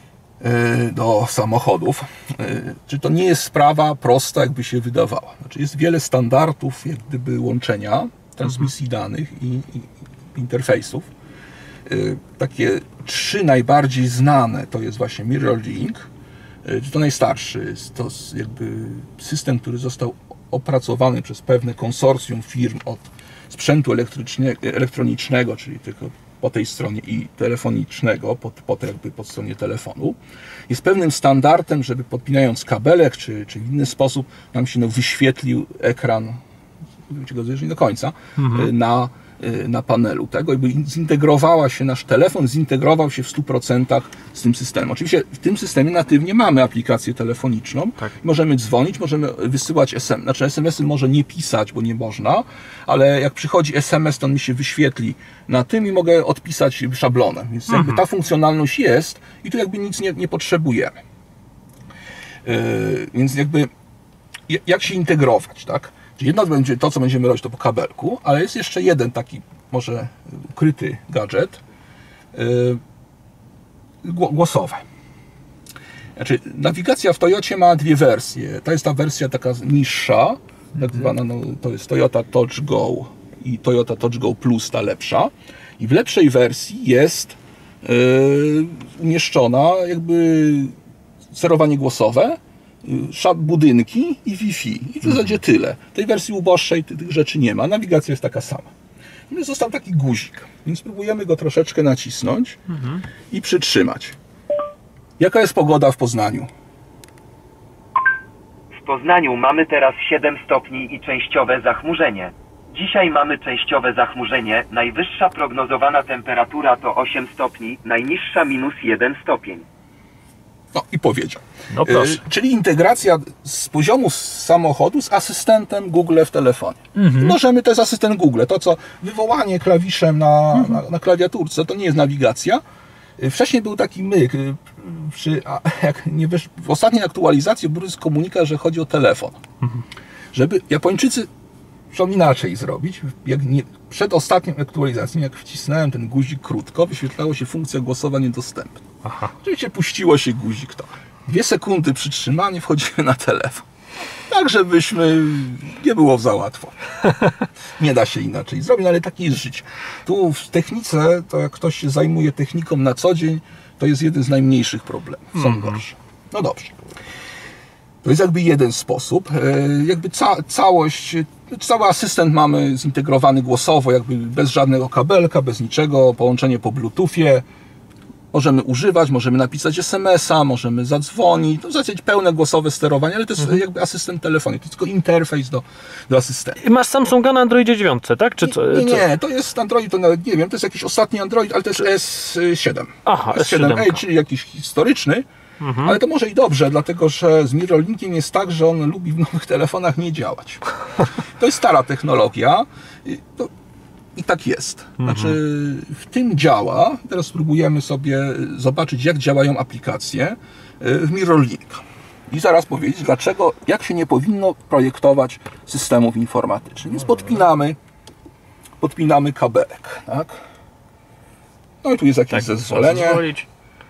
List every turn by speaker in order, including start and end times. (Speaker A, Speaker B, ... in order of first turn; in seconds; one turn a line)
Speaker A: 0.4-11.1
Speaker A: 11.9-16.0
Speaker A: 16.6-30.2
Speaker A: 30.7-36.4
Speaker A: 37.1-61.0
Speaker B: 38.4-38.7
Speaker B: 57.7-58.0
Speaker A: 62.5-63.7
Speaker A: 64.5-71.6
Speaker A: 72.3-72.8
Speaker A: 74.0-74.8
Speaker A: 76.2-90.7
Speaker A: 91.3-98.7
Speaker A: 99.3-102.6
Speaker B: 102.7-103.0
Speaker A: 103.3-104.2
Speaker A: 105.2-106.5
Speaker C: 108.8-119.6
Speaker A: 120.7-132.6
Speaker B: 121.7-122.2
Speaker B: 127.0-127.4
Speaker B: 130.5-130.8
Speaker A: 133.2-139.4
Speaker A: 140.3-141.3
Speaker A: 141.9-148.8
Speaker B: 149.0-149.3
Speaker A: 149.4-153.6
Speaker A: 154.3-156.8
Speaker A: 157.8-166.8
Speaker B: 165.3-165.8
Speaker A: 168.0-177.4
Speaker A: 178.3-186.6
Speaker B: 186.6-189.0
Speaker A: 188.4-195.2
Speaker B: 193.0-194.0
Speaker B: 195.6-196.0
Speaker A: 195.8-203.5
Speaker A: 204.2-217.8
Speaker B: 205.0-205.4
Speaker A: 218.8-220.4
Speaker A: 221.8-223.3
Speaker B: 222.3-223.5